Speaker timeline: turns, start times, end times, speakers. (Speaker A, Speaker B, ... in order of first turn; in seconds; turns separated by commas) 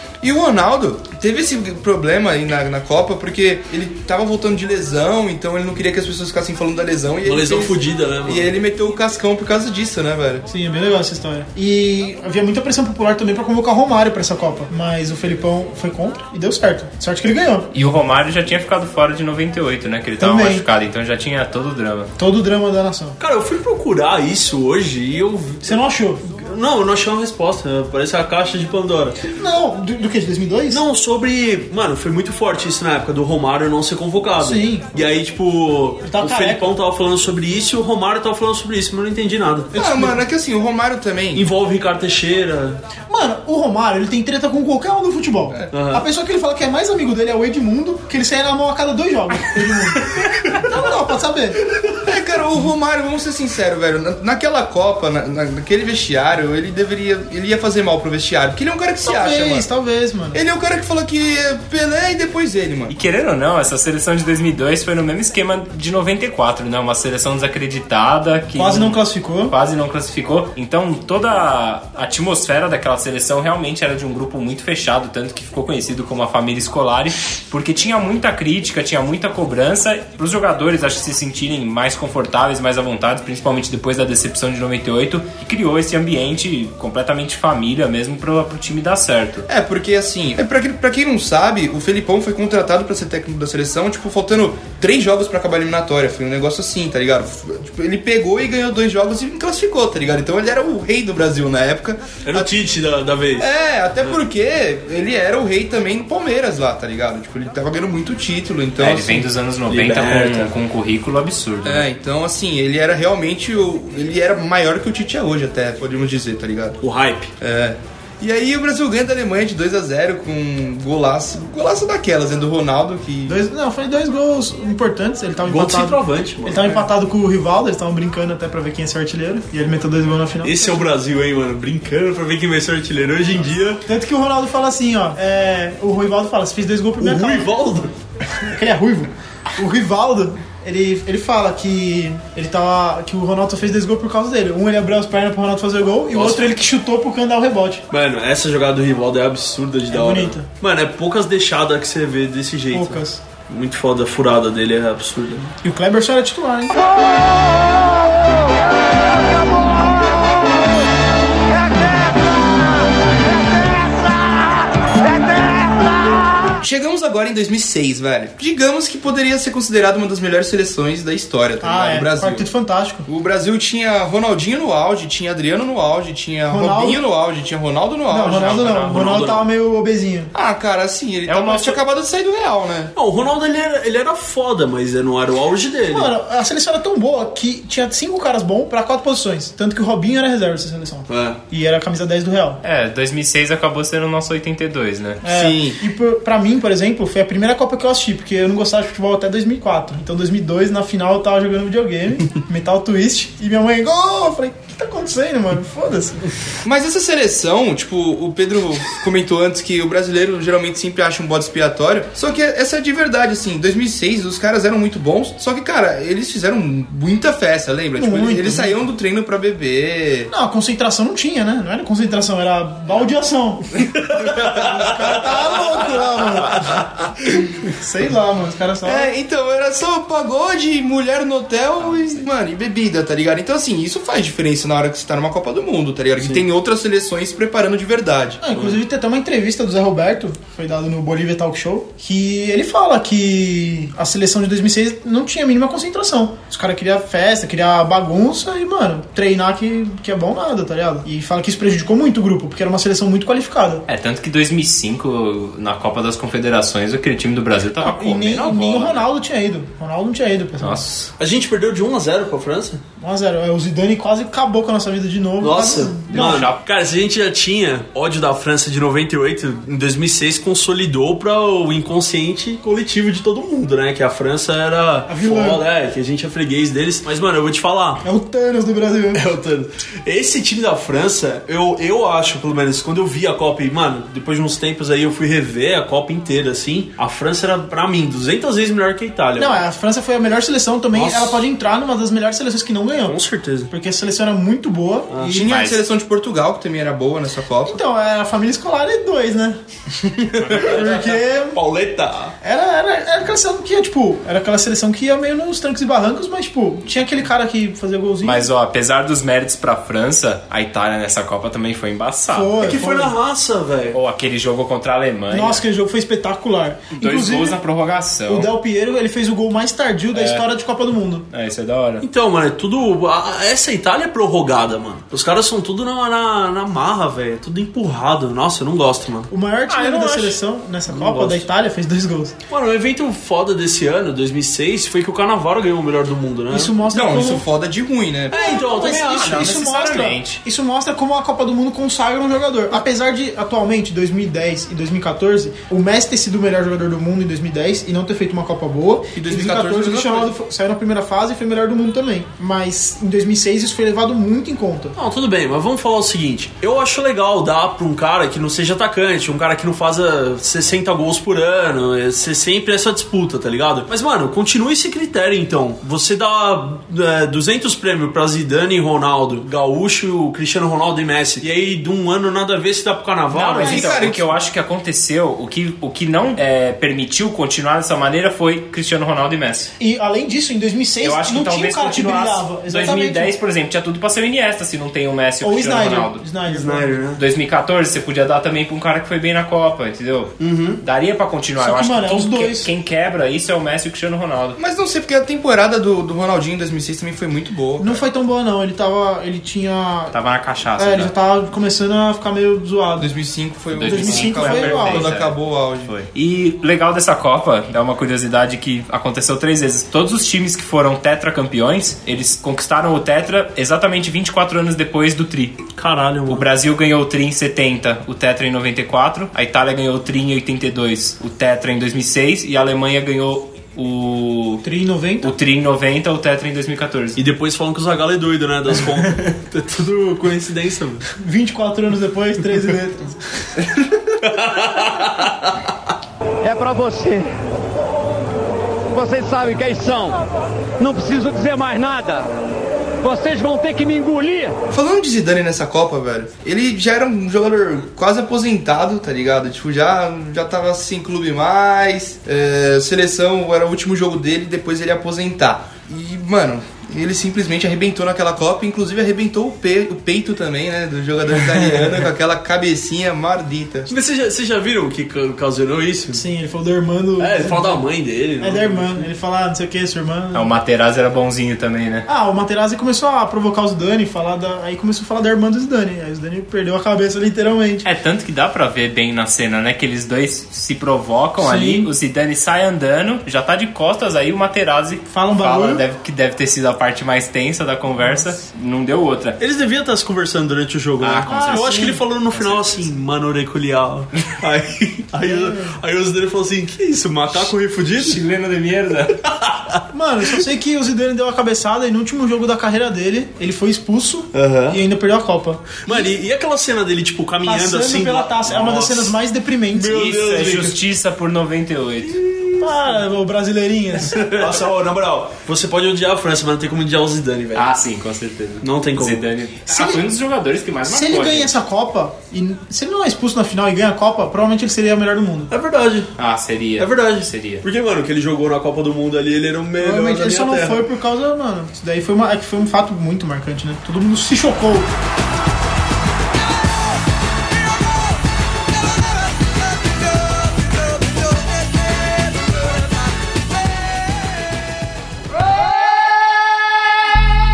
Speaker A: 0.2-10.5, Speaker B: 7.2-8.5, Speaker C: 10.5-17.7, Speaker D: 17.7-22.1, Speaker C: 20.2-20.6, Speaker C: 22.2-23.2, Speaker B: 23.2-29.2, Speaker C: 25.6-26.2, Speaker C: 29.3-30.8, Speaker B: 30.7-39.7, Speaker C: 34.4-34.9, Speaker C: 36.0-36.7, Speaker C: 39.7-40.1, Speaker A: 39.7-41.5, Speaker B: 41.3-42.8, Speaker C: 43.1-51.6, Speaker B: 45.7-46.0, Speaker A: 52.0-59.7, Speaker C: 59.0-60.4, Speaker A: 60.3-62.9, Speaker D: 62.9-89.5, Speaker C: 68.6-69.5, Speaker A: 89.5-102.7, Speaker B: 102.2-103.5, Speaker A: 103.4-109.3, Speaker D: 108.8-111.9, Speaker B: 109.7-110.5, Speaker A: 111.6-116.8, Speaker B: 116.8-117.3, Speaker A: 117.4-123.4, Speaker C: 123.3-130.9, Speaker B: 125.5-126.8, Speaker B: 130.4-133.8, Speaker C: 133.9-137.5, Speaker B: 137.0-137.9, Speaker C: 138.4-147.8, Speaker B: 146.1-146.6, Speaker B: 147.9-155.5, Speaker C: 149.9-150.5, Speaker C: 152.7-153.2, Speaker C: 155.6-156.8, Speaker A: 166.6-172.5, Speaker C: 171.6-173.1, Speaker A: 173.1-178.7, Speaker C: 176.5-177.0, Speaker C: 178.1-180.3, Speaker D: 178.2-179.2, Speaker B: 178.7-179.4, Speaker A: 180.3-182.9, Speaker D: 181.3-181.8, Speaker B: 183.0-186.1, Speaker C: 185.9-192.6, Speaker B: 191.1-191.4, Speaker D: 192.6-195.2, Speaker C: 195.2-206.2, Speaker A: 195.2-195.8, Speaker A: 206.6-220.3, Speaker C: 218.0-218.8, Speaker C: 220.3-226.7, Speaker B: 224.1-224.5, Speaker C: 227.7-229.1, Speaker A: 228.8-238.4, Speaker D: 231.8-232.3, Speaker C: 238.4-253.8, Speaker D: 253.9-259.1, Speaker C: 257.8-260.8, Speaker D: 260.6-261.1, Speaker B: 261.2-262.8, Speaker C: 263.0-266.5, Speaker B: 265.4-278.0, Speaker D: 266.1-266.6, Speaker C: 275.1-275.6, Speaker C: 278.0-279.2, Speaker B: 279.1-289.6, Speaker C: 289.4-293.2, Speaker B: 290.9-291.4, Speaker B: 293.0-293.7, Speaker C: 293.7-295.4, Speaker B: 295.1-295.4, Speaker A: 295.2-297.8, Speaker D: 295.4-295.8, Speaker C: 297.7-299.6, Speaker B: 300.3-302.3, Speaker C: 300.4-301.6, Speaker C: 302.4-308.5, Speaker D: 308.2-312.6, Speaker C: 312.3-313.2, Speaker B: 312.6-314.0, Speaker D: 313.9-315.6, Speaker C: 315.3-317.6, Speaker D: 316.9-318.5, Speaker C: 318.3-321.3, Speaker D: 320.1-320.5, Speaker D: 321.3-322.0, Speaker B: 322.0-329.3, Speaker C: 329.3-332.3, Speaker D: 329.7-330.4, Speaker B: 330.9-331.5, Speaker B: 332.5-336.7, Speaker C: 336.5-337.5, Speaker A: 336.9-338.6, Speaker B: 338.3-339.6, Speaker C: 338.3-354.9, Speaker D: 339.1-340.4, Speaker A: 349.1-350.4, Speaker B: 355.0-374.1, Speaker D: 373.3-379.7, Speaker A: 373.6-374.4, Speaker C: 379.8-383.3, Speaker D: 381.0-386.2, Speaker C: 385.4-387.0, Speaker B: 386.4-387.2, Speaker D: 387.2-394.6, Speaker B: 390.4-390.8, Speaker C: 391.6-392.7, Speaker A: 394.6-398.0, Speaker C: 397.8-400.2, Speaker D: 400.1-401.1, Speaker C: 400.8-403.1, Speaker A: 403.0-405.9, Speaker D: 403.7-415.6, Speaker C: 403.8-405.1, Speaker B: 415.8-416.5, Speaker D: 416.3-424.6, Speaker C: 424.6-425.3, Speaker D: 425.2-427.2, Speaker B: 427.2-431.1, Speaker C: 431.2-433.4, Speaker B: 434.2-435.7, Speaker E: 436.5-437.2, Speaker E: 438.9-440.2, Speaker E: 440.8-442.2, Speaker E: 443.0-444.5, Speaker A: 444.7-463.9, Speaker B: 463.9-466.2, Speaker C: 466.1-467.8, Speaker B: 467.2-469.1, Speaker C: 468.4-470.5, Speaker D: 470.3-472.1, Speaker C: 472.1-477.9, Speaker D: 477.8-489.4, Speaker C: 481.4-481.9, Speaker C: 485.1-485.8, Speaker C: 488.0-488.3, Speaker B: 489.4-498.2, Speaker D: 491.0-492.9, Speaker C: 491.3-492.0, Speaker C: 495.2-495.8, Speaker D: 498.0-499.2, Speaker B: 499.2-499.8, Speaker C: 499.9-506.1, Speaker B: 504.3-504.8, Speaker B: 505.8-509.2, Speaker C: 507.4-510.1, Speaker B: 509.7-510.8, Speaker D: 509.9-512.2, Speaker B: 512.0-513.0, Speaker C: 512.6-514.5, Speaker B: 514.0-517.7, Speaker D: 517.5-521.6, Speaker B: 518.6-519.2, Speaker C: 519.7-520.1, Speaker C: 520.9-525.5, Speaker B: 525.5-526.1, Speaker D: 526.2-527.6, Speaker B: 526.8-530.9, Speaker C: 529.8-534.9